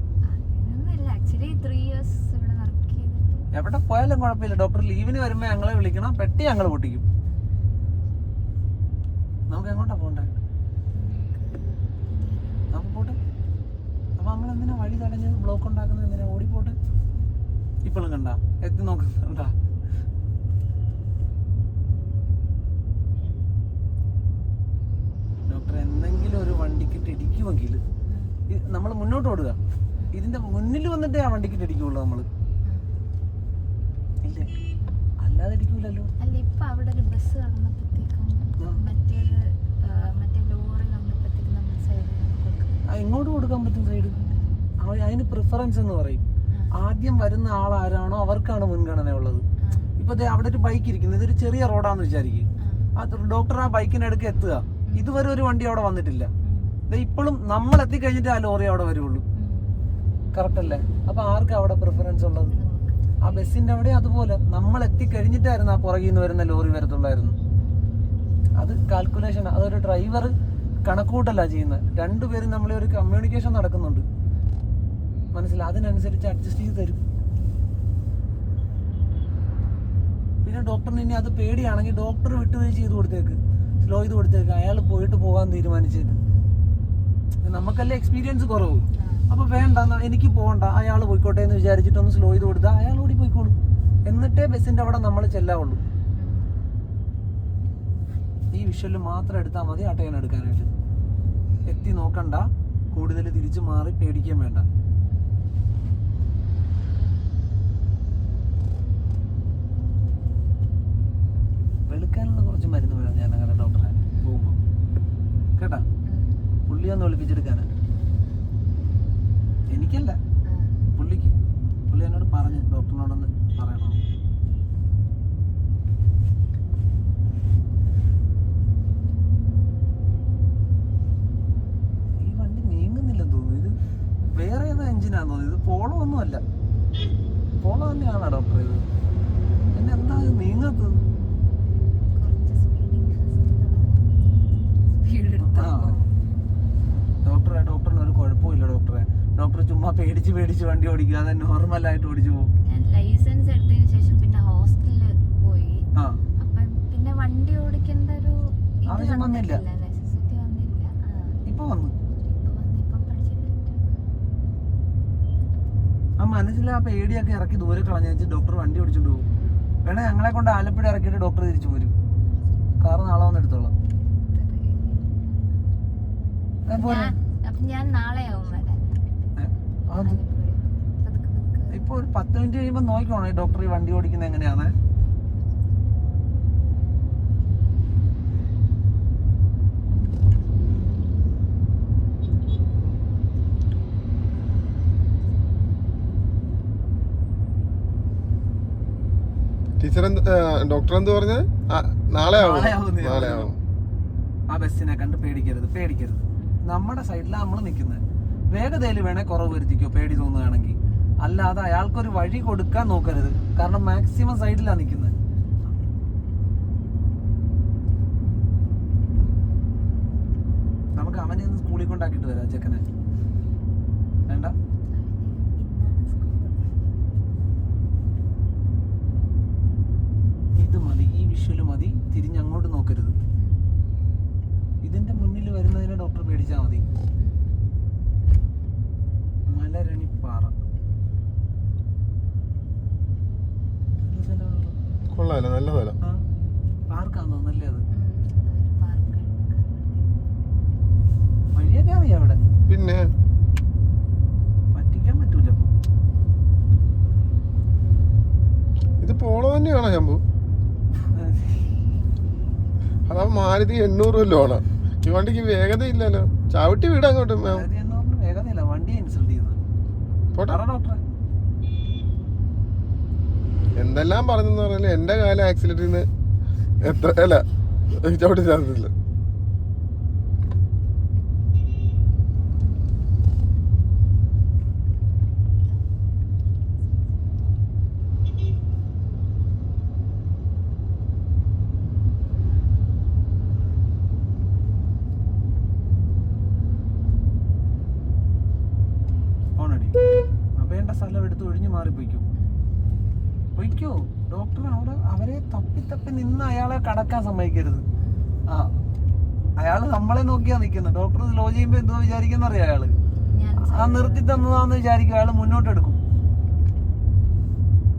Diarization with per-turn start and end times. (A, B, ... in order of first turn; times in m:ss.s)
0:00.2-0:03.5 A
0:03.5-0:07.0 B
0:07.3-0:07.5 A
0:09.5-0:10.3 B
0:10.9-0:12.7 A
0:12.7-0:13.2 B
0:14.2-0:16.8 B
0:17.8-0:19.5 B
0:25.5-0:27.8 B
0:28.1-0:28.3 A
0:28.5-0:29.6 B
0:30.1-0:32.3 B
0:34.2-0:34.5 B
0:35.2-0:36.1 B
0:36.2-0:42.8 A
0:42.9-0:44.2 B
0:44.1-0:44.6 A
0:44.8-0:49.4 B
0:49.6-0:49.9 A
0:50.0-0:56.3 B
0:52.6-0:52.9 A
0:54.9-0:55.2 A
0:56.4-0:56.7 A
0:56.9-0:59.2 B
0:59.3-0:59.7 A
1:00.3-1:02.5 B
1:02.4-1:03.2 A
1:03.2-1:07.4 B
1:08.6-1:10.3 B
1:10.8-1:14.0 B
1:15.3-1:17.0 B
1:20.4-1:26.2 B
1:27.4-1:33.5 B
1:29.0-1:29.3 A
1:34.0-1:35.8 B
1:36.2-1:36.5 A
1:38.5-1:40.7 B
1:41.6-1:44.7 B
1:51.9-1:54.6 B
1:55.6-1:55.8 B
1:56.0-1:56.4 A
1:56.7-1:57.7 B
1:57.9-1:58.3 A
1:59.7-2:00.2 B
2:00.4-2:00.8 A
2:00.9-2:01.3 B
2:01.9-2:04.0 B
2:12.2-2:13.8 B
2:14.3-2:16.4 B
2:17.6-2:18.8 B
2:19.7-2:21.0 B
2:22.1-2:24.3 A
2:25.0-2:26.0 A
2:25.4-2:26.1 B
2:27.2-2:32.5 B
2:32.6-2:35.9 A
2:35.9-2:36.2 B
2:36.4-2:41.4 A
2:38.9-2:39.6 B
2:41.5-2:41.9 B
2:42.2-2:43.8 A
2:46.2-2:49.2 B
2:49.8-2:51.9 B
2:52.8-2:53.7 B
2:54.2-2:55.1 A
2:56.7-2:57.1 B
2:56.8-2:59.2 A
2:59.4-3:00.2 B
3:00.0-3:01.8 A
3:01.7-3:04.7 B
3:19.8-3:23.6 C
3:22.2-3:23.5 B
3:24.5-3:35.1 B
3:35.3-3:35.6 A
3:41.0-3:42.8 B
3:44.3-3:44.5 B
3:44.9-3:46.8 A
3:50.6-3:53.2 B
3:53.4-3:53.6 A
3:54.8-3:56.8 B
3:57.2-3:57.5 A
3:59.5-4:00.5 B
4:04.1-4:04.7 B
4:05.1-4:06.0 C
4:06.9-4:07.8 B
4:07.9-4:10.0 A
4:11.5-4:12.4 B
4:12.7-4:13.1 C
4:14.7-4:15.7 B
4:19.0-4:20.2 C
4:21.1-4:21.6 B
4:23.1-4:27.6 C
4:27.4-4:29.6 B
4:30.5-4:31.0 B
4:33.8-4:36.1 C
4:36.8-4:38.9 C
4:59.6-5:00.0 B
5:00.6-5:02.3 B
5:02.3-5:02.9 A
5:03.6-5:07.8 B
5:08.0-5:08.3 A
5:08.5-5:08.7 B
5:09.6-5:12.9 B
5:13.3-5:14.5 A
5:13.6-5:16.0 B